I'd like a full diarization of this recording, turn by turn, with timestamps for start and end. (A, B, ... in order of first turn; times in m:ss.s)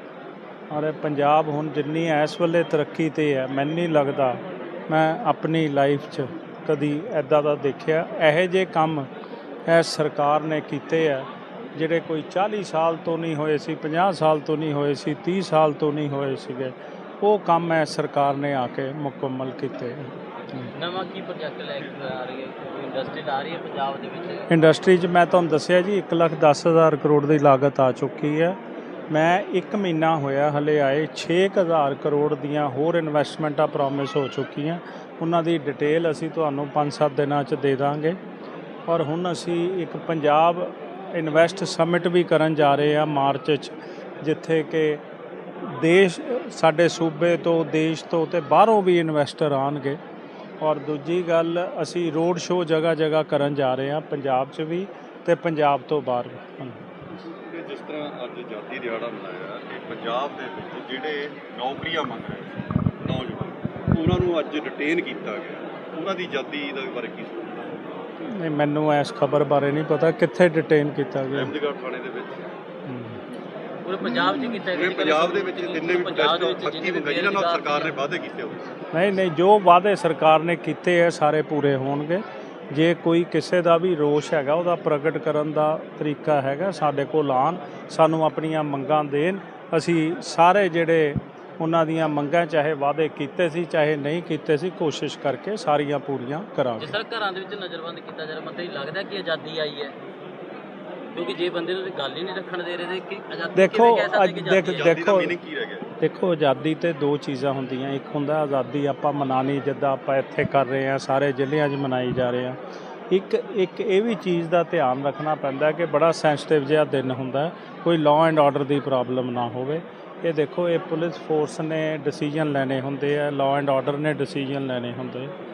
0:00.7-0:09.1 A
0:09.7-0:20.1 A
0:20.7-0:24.4 B
0:24.5-0:28.6 A
0:29.1-0:38.2 A
0:38.9-0:45.0 A
0:45.6-0:50.0 A
0:50.6-0:56.8 A
0:57.4-1:07.9 C
1:08.3-1:11.5 A
1:11.3-1:12.4 C
1:12.9-1:13.2 A
1:13.8-1:18.0 B
1:14.7-1:18.7 C
1:18.9-1:36.9 A
1:36.8-1:39.9 B
1:41.1-1:44.9 B
1:43.5-1:45.3 A
1:44.7-1:45.9 C
1:46.0-1:52.6 A
1:53.1-2:05.3 A